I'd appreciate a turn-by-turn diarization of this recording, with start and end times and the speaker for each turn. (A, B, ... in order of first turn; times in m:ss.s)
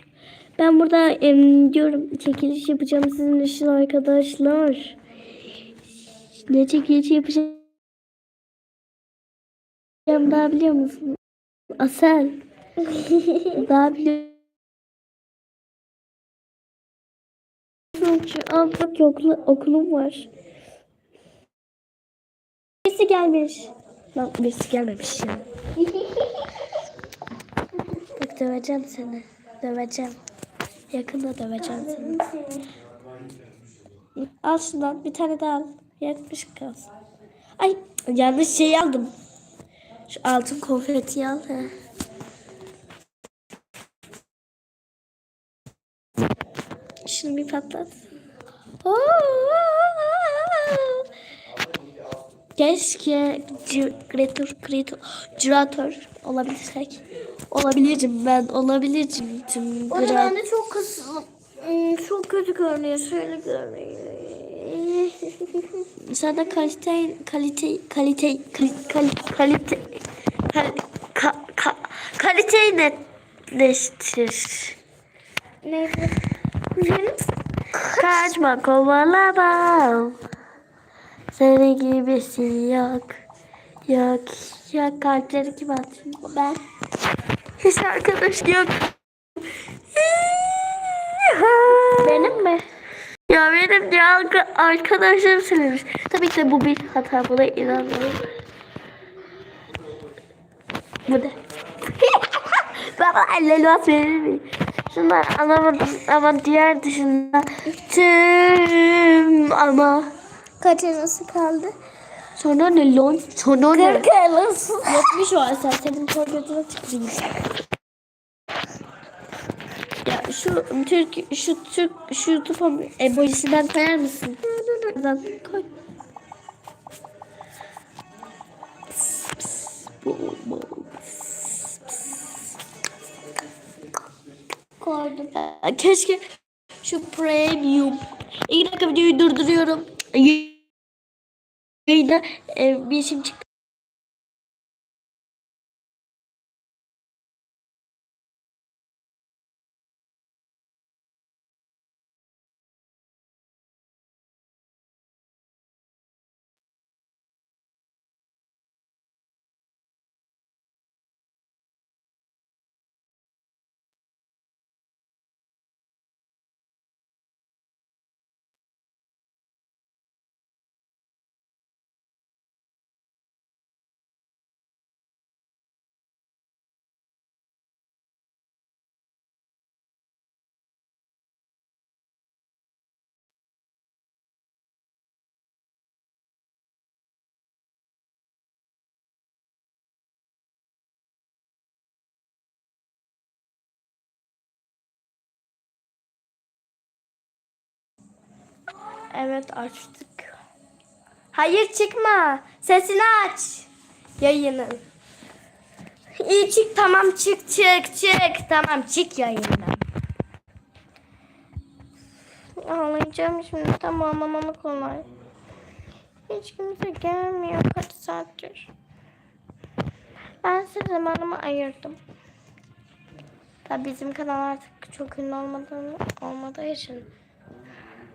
0:00.6-0:05.0 A
0:06.4-0:07.6 A
0:10.1-0:11.2 A
0:11.8-0:12.4 A
0:12.8-0:13.6 B
0:13.5-0:14.4 A
0:18.0-0:20.3 A
0:22.8-0:25.5 A
0:25.8-0:26.5 B
0:28.2-0:30.2 A
0:30.9-0:32.3 A
0:31.6-0:32.6 B
0:34.2-0:36.9 A
0:37.6-0:39.1 A
0:40.1-0:41.7 A
0:47.0-0:48.0 A
0:48.8-0:51.0 A
0:52.6-1:00.4 A
0:59.9-1:05.9 B
1:06.0-1:14.8 A
1:15.6-1:16.2 B
1:16.8-1:17.2 B
1:17.7-1:18.3 B
1:17.9-1:20.2 A
1:21.3-1:23.2 A
1:23.9-1:26.3 A
1:26.2-1:26.6 B
1:27.6-1:28.9 A
1:29.9-1:32.4 A
1:32.0-1:32.6 B
1:33.3-1:38.2 A
1:41.1-1:41.4 A
1:42.4-1:50.1 A
1:50.6-1:51.7 B
1:52.4-1:54.1 A
1:53.7-1:55.2 B
1:54.8-1:57.5 A
2:00.0-2:04.4 A
2:04.4-2:05.0 B
2:04.9-2:05.7 A
2:09.1-2:12.2 A
2:14.8-2:15.3 B
2:15.3-2:16.2 A
2:16.8-2:20.6 A
2:21.9-2:23.4 A
3:19.1-3:20.4 A
3:21.3-3:23.7 A
3:24.2-3:24.8 A
3:26.2-3:29.8 A
3:32.6-3:35.1 A
3:36.3-3:38.7 A
3:40.4-3:42.0 A
3:43.7-3:47.1 A